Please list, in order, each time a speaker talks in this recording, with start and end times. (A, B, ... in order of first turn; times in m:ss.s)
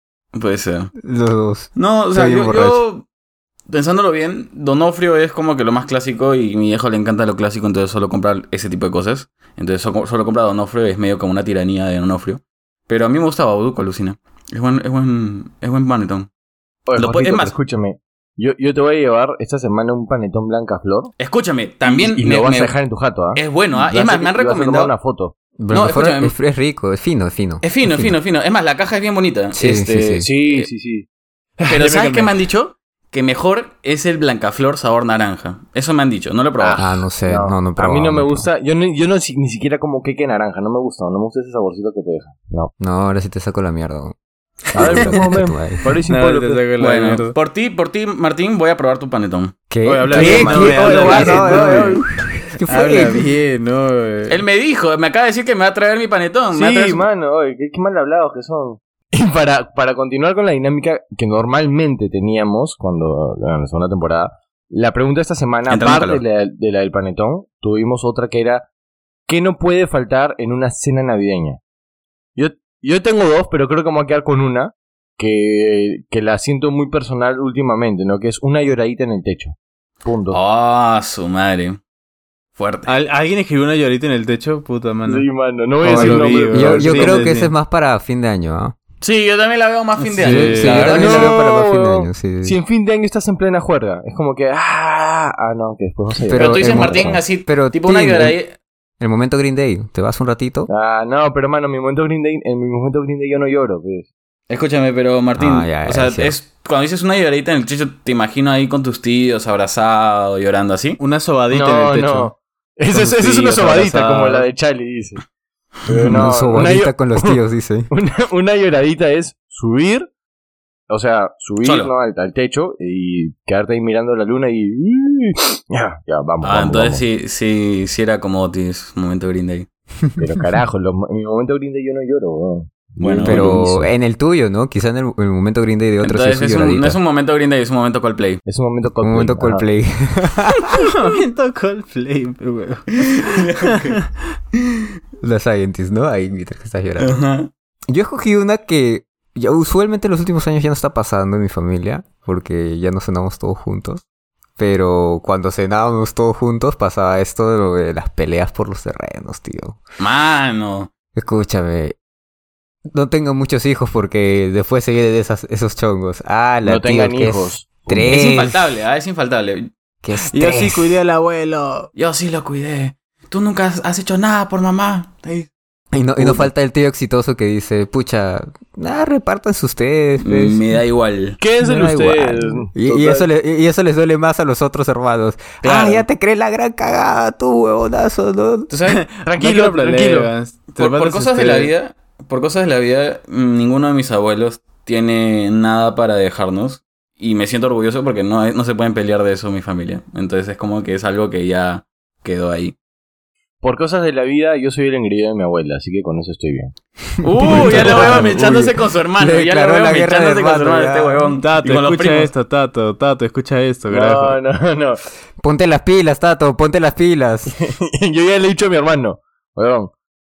0:00.3-0:00.9 A
0:01.0-0:02.8 B
0:01.8-0:03.0 A
0:03.7-0:16.3 A
0:16.9-0:21.1 C
0:17.0-0:17.5 A
0:21.2-0:22.7 A
0:21.8-0:25.3 C
0:23.4-0:24.9 A
0:25.6-0:28.2 B
0:25.7-0:26.3 A
0:27.6-0:30.7 A
0:29.6-0:30.3 B
0:30.2-0:31.1 C
0:31.6-0:32.3 D
0:31.7-0:36.8 A
0:36.6-0:42.7 C
0:36.8-0:38.5 B
0:42.8-0:44.2 B
0:44.7-0:45.8 B
0:44.7-0:46.6 C
0:44.8-0:45.1 A
0:46.1-0:47.4 D
0:46.8-0:49.5 A
0:49.7-0:53.3 B
0:49.8-0:52.0 D
0:50.0-0:52.0 C
0:50.9-0:51.6 A
0:52.7-0:54.4 D
0:54.3-0:57.0 A
0:56.5-1:08.7 C
1:05.7-1:06.2 A
1:09.3-1:11.6 C
1:12.4-1:20.4 C
1:20.3-1:21.8 A
1:22.6-1:22.9 A
1:22.9-1:25.3 D
1:25.1-1:27.3 C
1:25.8-1:27.5 D
1:25.9-1:28.8 B
1:29.0-1:31.3 A
1:30.0-1:30.9 D
1:30.2-1:32.6 B
1:30.7-1:37.2 C
1:36.3-1:38.4 B
1:36.3-1:38.6 A
1:39.0-1:40.7 B
1:40.7-1:44.1 C
1:44.5-1:51.0 A
1:45.4-1:46.3 B
1:51.0-1:52.3 D
1:51.5-1:55.2 C
1:52.9-1:54.5 D
1:55.8-1:57.4 C
1:56.0-1:57.9 B
1:57.9-2:00.1 C
2:00.9-2:07.0 C
2:01.6-2:01.9 A
2:06.4-2:09.7 A
2:10.2-2:13.9 C
2:13.0-2:13.6 A
2:13.2-2:17.0 B
2:16.0-2:18.4 A
2:18.5-2:19.6 C
2:19.0-2:20.9 B
2:20.8-2:24.0 D
2:23.2-2:24.0 A
2:25.2-2:27.2 B
2:27.0-2:27.5 A
2:27.9-2:34.0 B
2:34.6-2:39.8 B
2:40.0-2:40.9 A
2:41.2-2:42.0 B
2:42.9-2:48.6 B
2:46.6-2:48.2 C
2:48.1-2:49.7 A
2:50.0-2:51.0 B
2:50.2-2:51.9 D
2:52.0-2:55.5 A
2:55.9-3:00.6 B
2:56.2-2:56.5 C
3:00.2-3:01.4 A
3:01.4-3:03.3 C
3:01.6-3:08.7 B
3:05.6-3:06.0 A
3:08.7-3:09.0 A
3:08.9-3:11.7 D
3:09.2-3:10.3 C
3:10.8-3:22.8 A
3:23.6-3:26.7 C
3:27.2-3:32.3 A
3:27.4-3:28.5 B
3:27.4-3:28.7 C
3:29.2-3:31.3 B
3:31.4-3:34.4 D
3:33.9-3:35.0 C
3:35.4-3:37.6 B
3:37.5-3:39.9 C